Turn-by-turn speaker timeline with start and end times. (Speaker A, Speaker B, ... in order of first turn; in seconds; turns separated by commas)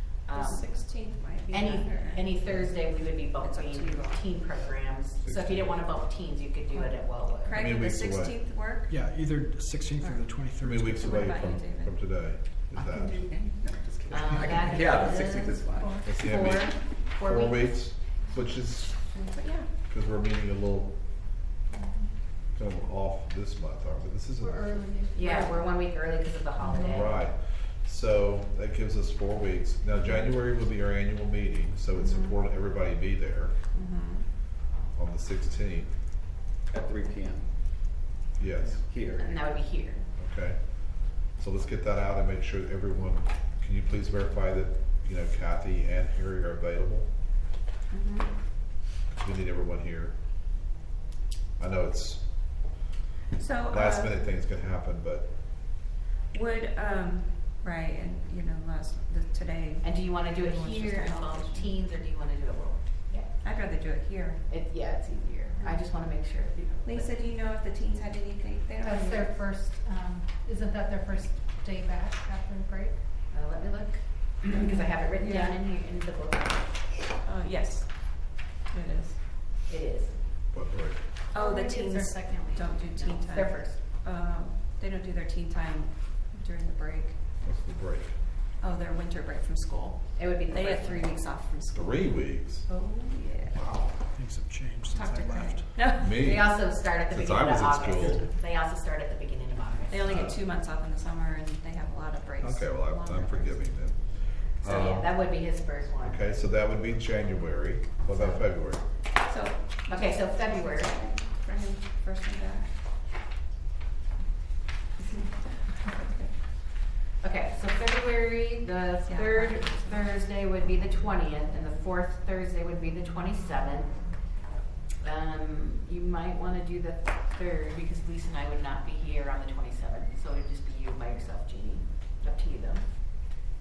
Speaker A: 0.3-0.8, Speaker B: 0.3-2.7, Speaker A: 1.5-7.7, Speaker B: 3.4-4.3, Speaker C: 5.2-5.9, Speaker B: 6.7-8.9, Speaker C: 7.5-8.3, Speaker D: 8.9-11.2, Speaker B: 10.0-10.3, Speaker C: 10.6-13.3, Speaker B: 11.0-12.0, Speaker E: 12.8-16.3, Speaker A: 14.1-17.9, Speaker F: 15.8-16.1, Speaker C: 16.0-19.1, Speaker B: 19.0-19.7, Speaker C: 19.9-20.9, Speaker C: 22.5-24.7, Speaker F: 24.4-25.6, Speaker A: 25.1-27.2, Speaker C: 26.6-33.5, Speaker B: 33.7-34.2, Speaker C: 34.9-35.9, Speaker E: 36.7-37.5, Speaker C: 38.4-38.8, Speaker D: 38.5-38.8, Speaker E: 38.8-39.5, Speaker A: 39.2-40.0, Speaker C: 40.2-47.1, Speaker B: 47.9-48.3, Speaker C: 49.1-50.1, Speaker C: 51.6-52.3, Speaker B: 53.4-54.1, Speaker C: 53.7-55.3, Speaker B: 56.3-61.7, Speaker A: 59.8-63.3, Speaker B: 63.4-64.4, Speaker A: 64.5-67.2, Speaker B: 65.6-65.9, Speaker B: 66.9-69.4, Speaker F: 68.8-73.0, Speaker A: 73.3-76.8, Speaker B: 75.2-75.6, Speaker B: 77.2-79.2, Speaker A: 79.7-80.2, Speaker C: 80.5-81.0, Speaker F: 81.3-82.9, Speaker B: 81.3-87.2, Speaker A: 82.9-83.8, Speaker C: 87.4-88.2, Speaker B: 88.6-93.6, Speaker A: 90.2-91.3, Speaker C: 91.7-92.7, Speaker A: 92.7-93.1, Speaker D: 93.5-96.0, Speaker B: 94.9-96.2, Speaker C: 96.0-98.2, Speaker A: 96.1-100.3, Speaker B: 99.9-103.7, Speaker C: 100.1-100.4, Speaker C: 102.4-105.2, Speaker A: 104.6-106.4, Speaker C: 106.0-108.8, Speaker A: 108.2-108.4, Speaker B: 109.2-112.8, Speaker A: 109.9-111.0, Speaker B: 115.8-116.3, Speaker A: 117.2-124.1, Speaker B: 119.1-120.1, Speaker A: 125.0-132.8